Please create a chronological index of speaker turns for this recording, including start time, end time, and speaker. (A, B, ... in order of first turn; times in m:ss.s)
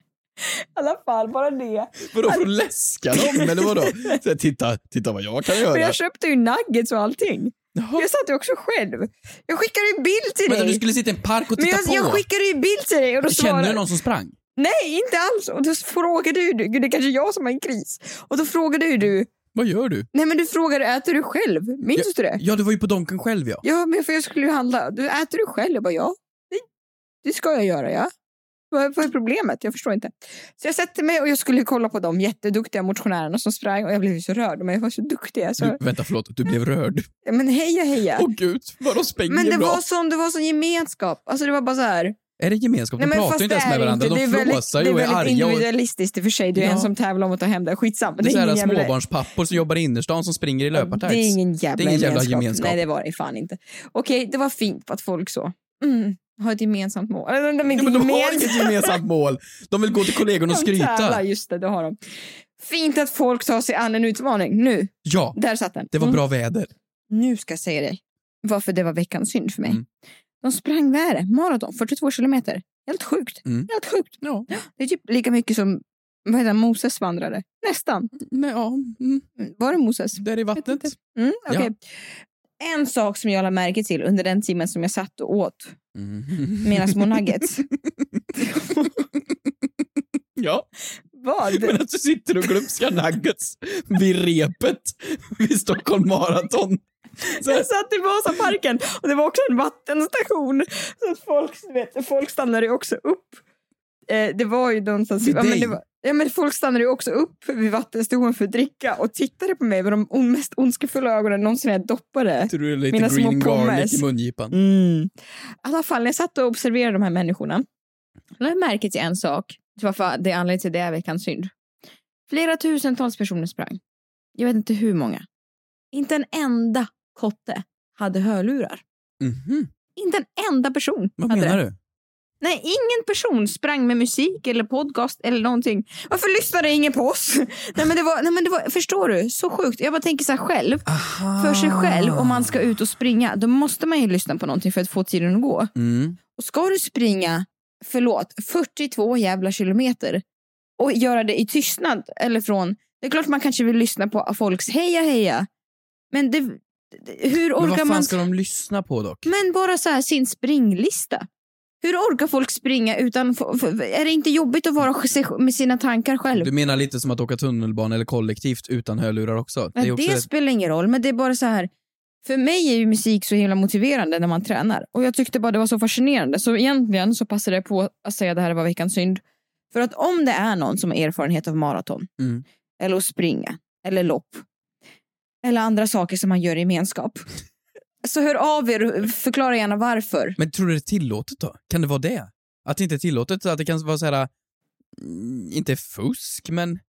0:00.4-0:02.4 A
0:02.1-0:06.0 B
0:03.2-0:04.1 A
0:05.5-0:10.8 A
0:07.8-0:08.1 B
0:10.5-0:12.2 B
0:11.6-0:13.8 A
0:13.3-0:14.4 B
0:14.6-0:19.3 A
0:19.6-0:20.1 B
0:20.1-0:22.4 A
0:22.0-0:23.6 B
0:23.6-0:26.6 A
0:27.2-0:28.1 A
0:28.7-0:35.8 A
0:35.6-0:37.1 B
0:37.2-0:38.3 A
0:38.2-0:39.8 B
0:39.3-0:42.2 A
0:42.4-0:45.7 B
0:43.0-0:48.9 A
0:46.6-0:46.9 B
0:48.2-0:52.8 B
0:50.8-0:59.0 A
0:57.7-1:01.2 B
1:00.2-1:02.0 A
1:02.6-1:06.2 A
1:05.0-1:05.4 B
1:05.9-1:06.7 B
1:07.1-1:09.8 A
1:10.4-1:18.1 A
1:13.4-1:13.7 B
1:14.2-1:14.5 B
1:18.3-1:19.2 B
1:19.4-1:25.8 A
1:20.2-1:21.0 B
1:26.0-1:28.2 B
1:26.6-1:27.6 A
1:28.4-1:29.0 A
1:30.4-1:30.7 B
1:31.1-1:31.8 A
1:31.5-1:37.7 B
1:37.3-1:43.4 A
1:44.1-1:55.1 A
1:45.2-1:45.8 B
1:52.5-1:54.6 B
1:55.6-1:57.7 A
1:58.4-2:01.5 A
2:02.3-2:03.8 A
2:04.4-2:05.3 A
2:05.9-2:08.8 A
2:09.2-2:09.7 B
2:10.0-2:11.6 A
2:11.2-2:11.8 B
2:12.4-2:20.9 A
2:20.9-2:22.6 B
2:21.4-2:25.7 A
2:25.8-2:26.2 B
2:26.4-2:30.2 A
2:30.8-2:35.5 A
2:36.1-2:38.2 A
2:37.6-2:39.3 B
2:39.3-2:41.3 A
2:41.8-2:46.5 A
2:46.4-2:50.2 B
2:49.8-2:51.7 A
2:52.2-2:59.2 A
2:59.7-3:02.1 A
3:02.2-3:02.4 B
3:02.8-3:04.4 A
3:05.4-3:07.3 A
3:08.0-3:10.4 A
3:10.4-3:14.3 B
3:15.0-3:16.8 B